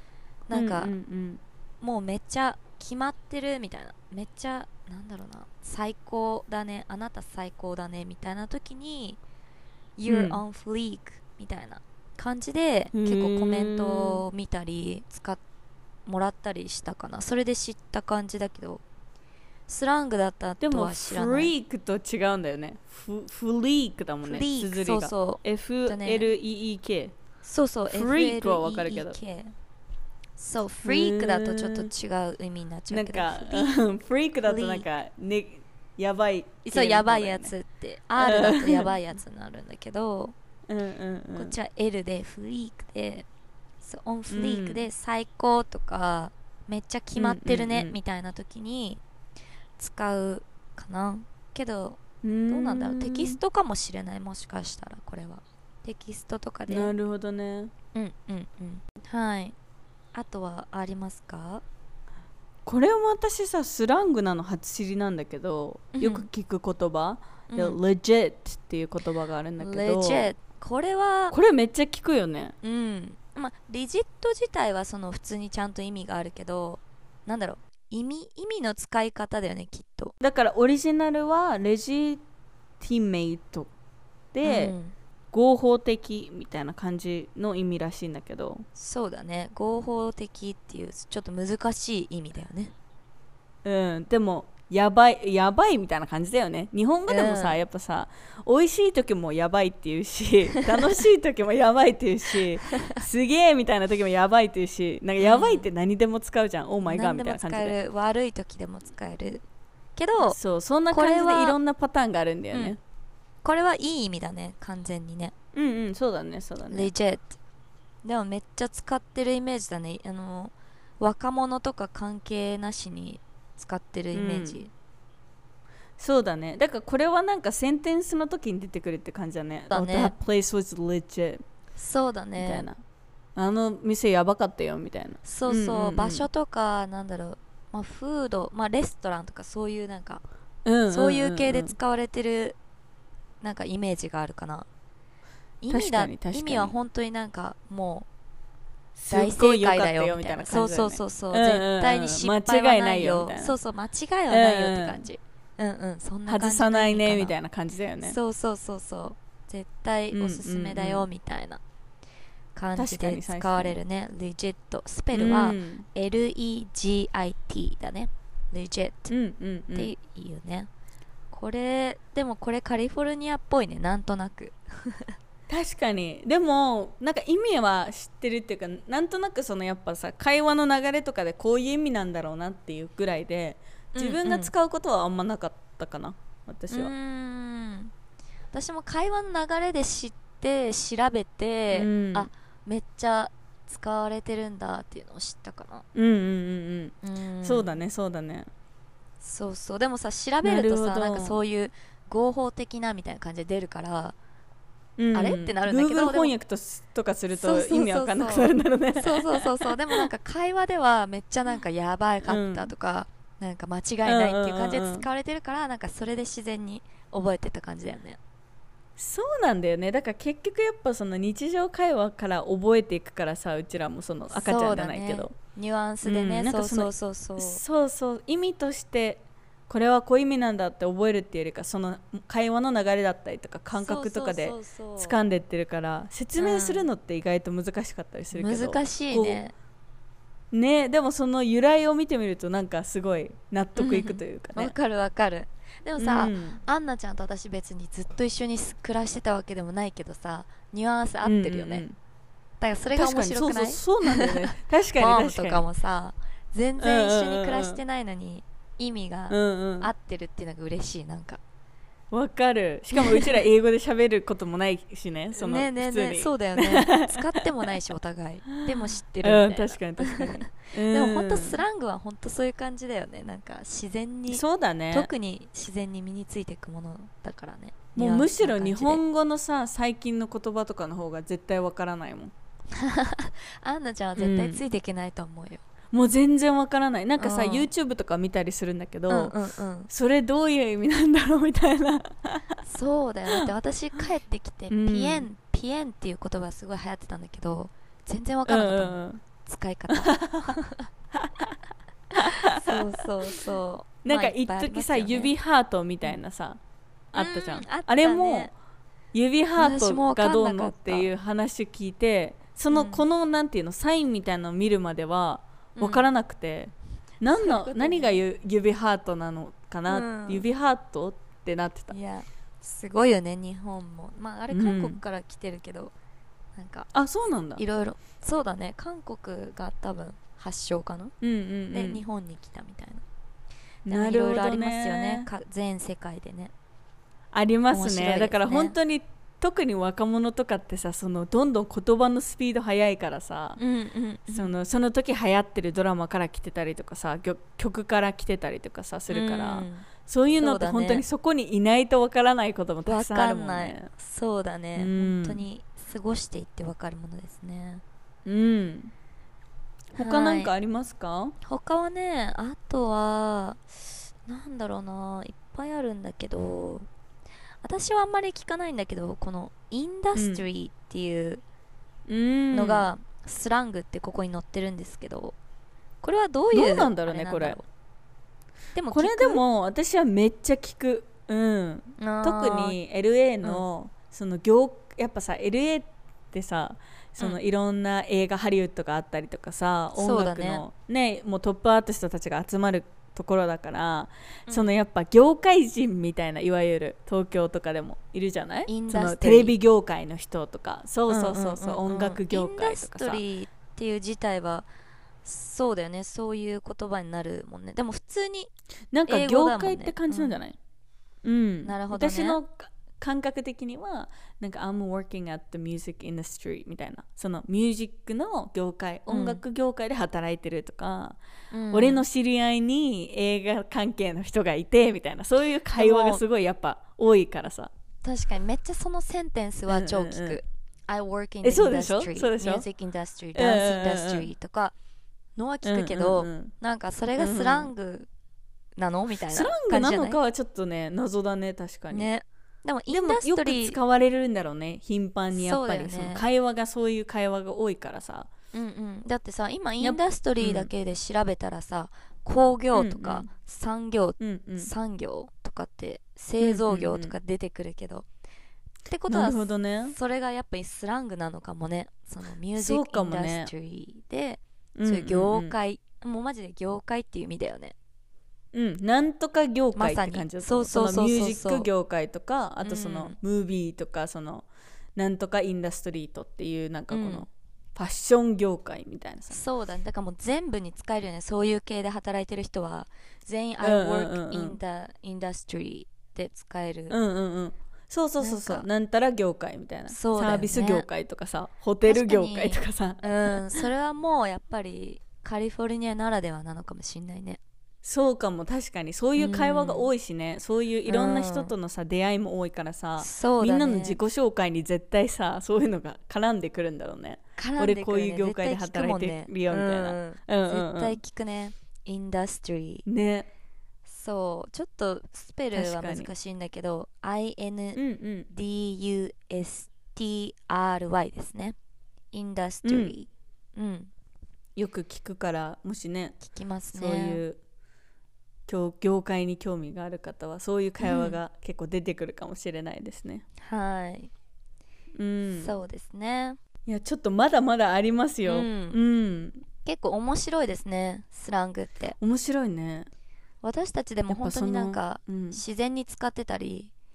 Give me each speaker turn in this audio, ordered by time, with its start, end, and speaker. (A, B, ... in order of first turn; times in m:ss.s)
0:00.5-0:00.9 A
0:00.5-0:01.4 B
0:01.8-0:09.2 A
0:10.0-0:15.4 A
0:10.1-0:10.4 B
0:12.9-0:14.2 B
0:16.1-0:18.8 A
0:19.7-0:21.5 A
0:20.6-0:27.2 B
0:24.2-0:26.3 A
0:27.4-0:29.5 A
0:27.9-0:29.2 B
0:30.4-0:33.8 A
0:30.8-0:31.9 B
0:32.9-0:37.5 B
0:34.4-0:34.9 A
0:36.6-0:40.3 A
0:38.2-0:38.9 B
0:40.7-0:41.6 B
0:41.4-0:43.3 A
0:43.8-0:49.0 A
0:44.3-0:44.8 B
0:47.2-0:48.0 B
0:49.8-0:56.9 A
0:52.2-0:53.4 B
0:56.7-0:57.7 B
0:57.9-0:59.6 A
1:00.1-1:01.6 A
1:02.6-1:10.3 B
1:05.9-1:06.3 A
1:07.5-1:07.8 A
1:09.6-1:11.4 A
1:11.3-1:12.6 B
1:12.6-1:20.1 A
1:20.2-1:22.2 B
1:22.8-1:23.7 B
1:24.3-1:24.8 B
1:24.4-1:25.0 A
1:25.3-1:28.7 B
1:28.8-1:32.7 A
1:33.6-1:47.8 B
1:37.1-1:37.6 A
1:45.2-1:45.7 A
1:46.9-1:49.4 A
1:50.0-1:50.4 A
1:50.2-1:52.8 B
1:50.9-1:51.6 A
1:53.4-1:55.3 A
1:55.5-1:56.9 B
1:56.7-1:57.4 A
1:58.0-2:04.7 A
2:04.1-2:04.6 B
2:06.0-2:11.4 B
2:09.7-2:10.2 A
2:11.8-2:12.7 A
2:12.4-2:12.8 B
2:13.4-2:16.3 B
2:15.2-2:20.2 A
2:20.6-2:21.8 B
2:20.9-2:22.6 A
2:23.4-2:24.7 A
2:25.6-2:28.1 A
2:25.7-2:26.8 B
2:29.0-2:33.6 B
2:29.1-2:37.4 A
2:34.3-2:35.1 B
2:36.3-2:38.2 B
2:38.0-2:41.6 A
2:40.1-2:41.1 B
2:42.6-2:49.1 A
2:42.8-2:43.8 B
2:45.1-2:45.8 B
2:49.1-2:49.9 B
2:49.7-2:50.7 A
2:51.3-2:55.2 A
2:55.5-3:06.9 B
3:03.9-3:04.5 A
3:06.7-3:07.9 A
3:08.5-3:15.9 A
3:11.7-3:12.3 B
3:16.0-3:18.5 B
3:17.0-3:17.8 A
3:19.2-3:24.2 A
3:20.4-3:21.4 B
3:25.0-3:30.1 B
3:25.1-3:26.3 A
3:27.3-3:38.2 A
3:32.2-3:32.7 B
3:34.0-3:35.1 B
3:39.0-3:45.4 B
3:44.3-3:47.6 A
3:46.0-3:59.4 B
3:53.7-3:55.2 A
3:56.4-3:56.9 A
3:58.3-3:59.5 A
4:00.5-4:04.7 B
4:03.8-4:11.8 A
4:06.0-4:06.6 B
4:11.2-4:12.0 B
4:12.6-4:21.4 A
4:13.0-4:15.6 B
4:16.8-4:17.8 B
4:19.3-4:19.9 B
4:22.1-4:27.7 B
4:22.9-4:23.4 A
4:25.3-4:39.0 A
4:28.6-4:31.6 B
4:34.3-4:35.1 B
4:38.0-4:42.3 B
4:42.7-4:45.6 A
4:44.2-4:44.6 B
4:45.9-4:49.4 B
4:47.2-4:47.7 A
4:49.1-4:49.9 A
4:49.9-4:52.6 B
4:52.6-5:00.9 A
4:54.7-4:55.3 B
4:58.5-4:59.2 B
4:59.9-5:00.6 B
5:01.2-5:01.6 B
5:02.2-5:03.0 B
5:02.2-5:05.3 A
5:04.0-5:06.6 B
5:07.1-5:08.5 B
5:07.2-5:08.5 A
5:09.1-5:21.9 B
5:09.6-5:11.1 A
5:12.7-5:13.1 A
5:15.8-5:16.1 A
5:17.3-5:18.2 A
5:19.9-5:20.5 A
5:21.9-5:25.9 A
5:24.5-5:25.0 B
5:26.6-5:26.9 A
5:26.9-5:27.6 B
5:27.6-5:31.1 A
5:31.2-5:32.0 B
5:31.7-5:33.0 A
5:33.9-5:35.3 B
5:33.9-5:36.5 A
5:37.3-5:43.6 B
5:37.7-5:38.7 A
5:43.6-5:44.5 A
5:44.3-5:53.9 B
5:49.1-5:51.0 A
5:52.8-5:57.8 A
5:54.8-5:55.4 B
5:58.2-5:58.9 B
6:00.0-6:00.5 A
6:00.0-6:01.4 B
6:01.4-6:03.6 A
6:04.3-6:06.9 A
6:07.6-6:11.4 A
6:10.2-6:10.4 B
6:12.1-6:12.9 B
6:12.5-6:15.4 A
6:16.0-6:17.6 A
6:16.5-6:17.6 B
6:18.8-6:19.4 A
6:18.9-6:43.2 B
6:22.0-6:22.8 A
6:30.0-6:30.6 A
6:34.5-6:34.7 A
6:38.7-6:39.6 A
6:41.1-6:44.7 A
6:45.2-6:48.5 A
6:48.9-6:50.6 B
6:49.1-6:50.4 A
6:51.2-7:01.2 B
6:51.6-6:52.4 A
6:59.1-6:59.4 A
7:01.5-7:02.0 A
7:01.7-7:07.7 B
7:05.7-7:06.2 A
7:08.0-7:14.7 A
7:09.7-7:10.4 B
7:11.4-7:12.7 B
7:13.4-7:14.3 B
7:15.4-7:18.1 A
7:15.6-7:16.5 B
7:17.2-7:17.7 B
7:18.8-7:20.2 A
7:19.3-7:22.1 B
7:21.9-7:23.8 A
7:22.9-7:28.3 B
7:25.3-7:26.2 A
7:28.5-7:38.1 A
7:29.8-7:30.7 B
7:32.7-7:33.3 B
7:34.2-7:34.7 B
7:36.4-7:37.1 B
7:38.9-7:47.8 A
7:39.1-7:40.0 B
7:42.6-7:43.5 B
7:44.8-7:45.5 B
7:48.5-7:59.4 B
7:49.8-7:51.7 A
7:52.6-7:53.2 A
7:56.9-7:57.3 A
7:59.3-8:07.0 A
8:03.6-8:04.6 B
8:06.9-8:13.6 B
8:08.2-8:08.7 A
8:09.9-8:10.9 A
8:11.8-8:17.4 A
8:17.8-8:31.0 B
8:19.2-8:19.9 A
8:20.9-8:21.5 A
8:23.0-8:24.0 A
8:27.4-8:32.9 A
8:32.9-8:33.3 B
8:33.9-8:41.6 A
8:35.5-8:36.1 B
8:37.8-8:38.3 B
8:42.1-8:43.9 A
8:42.6-8:43.0 B
8:44.6-8:46.2 B
8:46.2-8:47.2 A
8:46.7-8:47.4 B
8:48.5-8:53.2 B
8:50.8-8:51.2 A
8:53.4-8:54.1 A
8:55.0-8:55.5 B
8:55.4-8:56.4 A
8:56.7-8:59.4 B
8:58.2-8:58.8 A
8:59.6-9:02.0 A
9:02.0-9:02.9 B
9:03.4-9:06.7 A
9:04.1-9:05.4 B